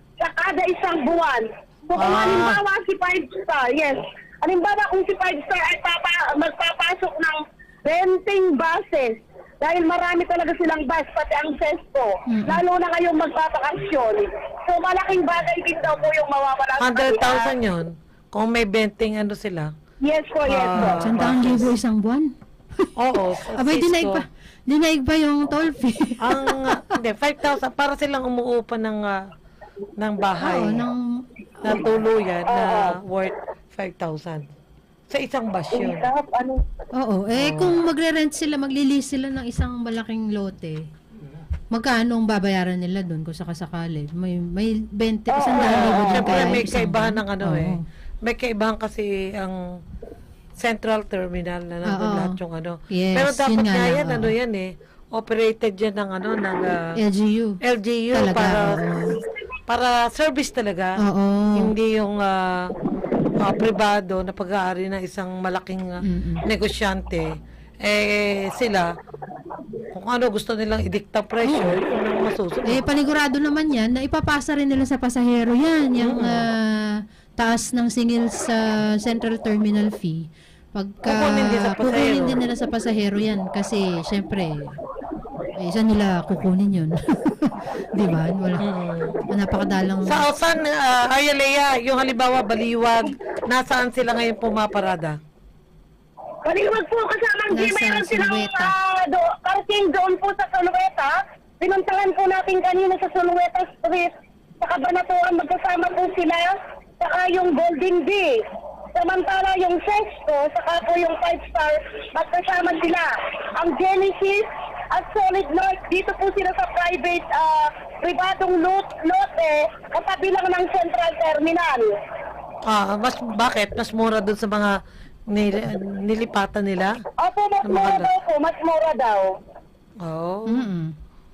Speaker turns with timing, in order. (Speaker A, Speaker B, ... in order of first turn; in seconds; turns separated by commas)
Speaker A: 0.2-17.5, Speaker B: 1.9-2.6, Speaker C: 12.3-12.6, Speaker B: 16.8-19.7, Speaker A: 20.0-21.0, Speaker B: 20.5-21.7, Speaker C: 20.8-22.9, Speaker B: 23.0-24.2, Speaker C: 23.6-26.8, Speaker B: 26.2-29.2, Speaker B: 30.0-30.8, Speaker C: 30.4-31.9, Speaker B: 31.6-34.5, Speaker A: 32.5-33.0, Speaker B: 35.1-36.1, Speaker A: 35.7-36.6, Speaker C: 37.0-40.8, Speaker B: 37.4-37.8, Speaker C: 41.7-47.8, Speaker A: 45.3-46.5, Speaker B: 45.6-49.6, Speaker B: 50.6-56.8, Speaker C: 51.9-52.4, Speaker C: 52.9-54.3, Speaker C: 57.0-57.6, Speaker B: 57.6-58.9, Speaker C: 58.1-59.2, Speaker B: 59.7-61.0, Speaker C: 61.0-61.7, Speaker B: 61.6-62.7, Speaker B: 63.4-67.3, Speaker C: 66.0-66.4, Speaker B: 67.8-68.9, Speaker B: 69.9-72.8, Speaker C: 71.5-71.8, Speaker C: 72.7-84.8, Speaker B: 76.0-76.5, Speaker B: 81.0-82.4, Speaker C: 85.5-88.6, Speaker B: 88.6-89.2, Speaker C: 89.3-90.2, Speaker B: 90.1-95.2, Speaker A: 96.5-121.9, Speaker C: 97.5-98.7, Speaker B: 122.6-124.8, Speaker B: 125.3-127.0, Speaker A: 127.2-129.3, Speaker B: 127.6-128.1, Speaker B: 130.1-130.7, Speaker C: 130.5-130.9